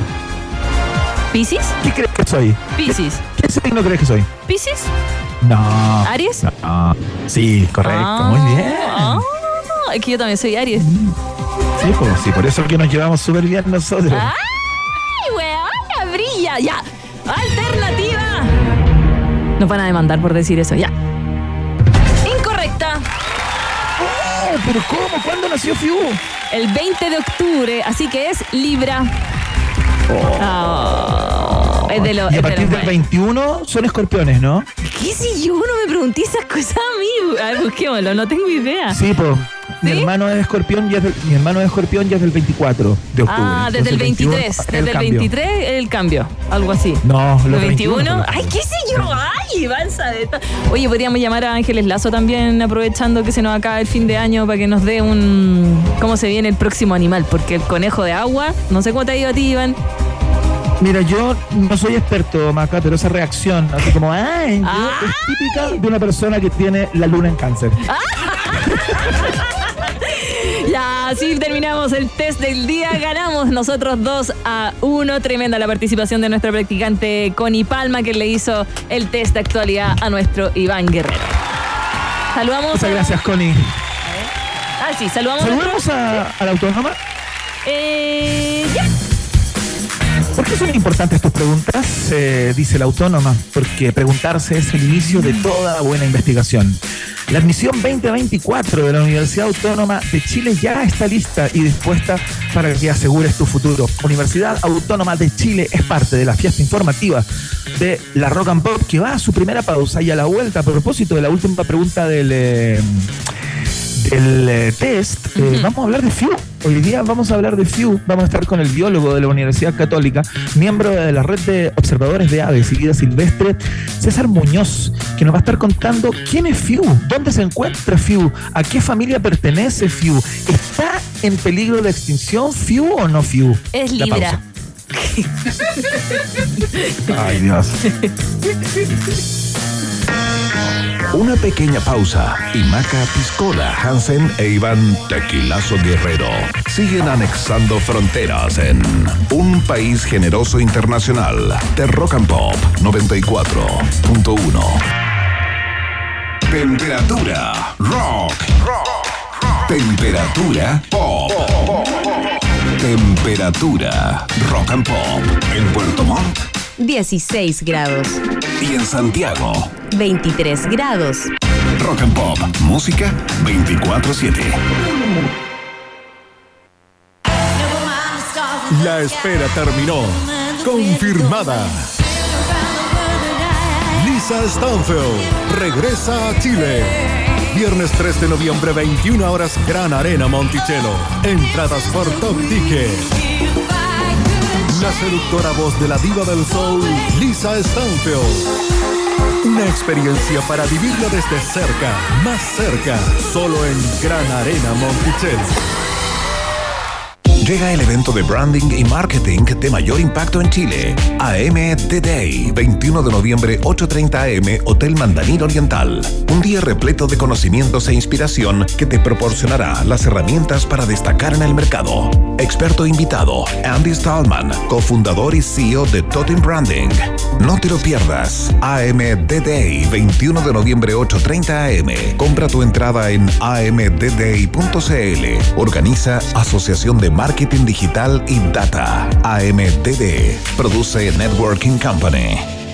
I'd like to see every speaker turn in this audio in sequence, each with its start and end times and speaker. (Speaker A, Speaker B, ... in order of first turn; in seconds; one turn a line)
Speaker A: 1.3-1.7
Speaker B: 1.8-4.3
Speaker A: 2.8-3.2
Speaker A: 4.5-4.9
Speaker B: 5.4-9.2
Speaker A: 6.0-6.4
Speaker A: 7.8-10.9
Speaker B: 10.8-11.1
Speaker B: 11.8-14.3
Speaker A: 14.1-14.5
Speaker A: 15.1-18.5
Speaker A: 19.6-20.9
Speaker A: 22.2-23.1
Speaker B: 24.0-26.2
Speaker A: 26.5-29.1
Speaker B: 30.1-30.5
Speaker A: 30.4-32.9
Speaker B: 31.9-34.7
Speaker A: 34.8-39.0
Speaker B: 38.9-45.3
Speaker A: 39.8-40.1
Speaker A: 43.3-59.8
Speaker B: 47.0-48.5
Speaker B: 60.8-67.8
Speaker A: 64.6-65.8
Speaker A: 67.9-81.4
Speaker A: 82.3-83.2
Speaker B: 82.7-83.7
Speaker A: 84.8-86.2
Speaker B: 85.4-87.0
Speaker A: 87.6-88.9
Speaker B: 90.3-113.1
Speaker B: 114.0-134.4
Speaker A: 115.3-115.7
Speaker A: 133.7-134.4
Speaker A: 134.9-137.1
Speaker B: 137.1-137.8
Speaker C: 141.1-154.8
Speaker C: 156.5-158.6
Speaker C: 159.6-161.9
Speaker C: 162.8-166.4
Speaker D: 166.8-168.2
Speaker C: 168.6-169.8
Speaker D: 169.9-171.3
Speaker C: 171.8-174.6
Speaker E: 178.7-181.9
Speaker E: 183.9-193.1
Speaker E: 194.7-198.5
Speaker E: 199.4-205.6
Speaker C: 207.4-242.4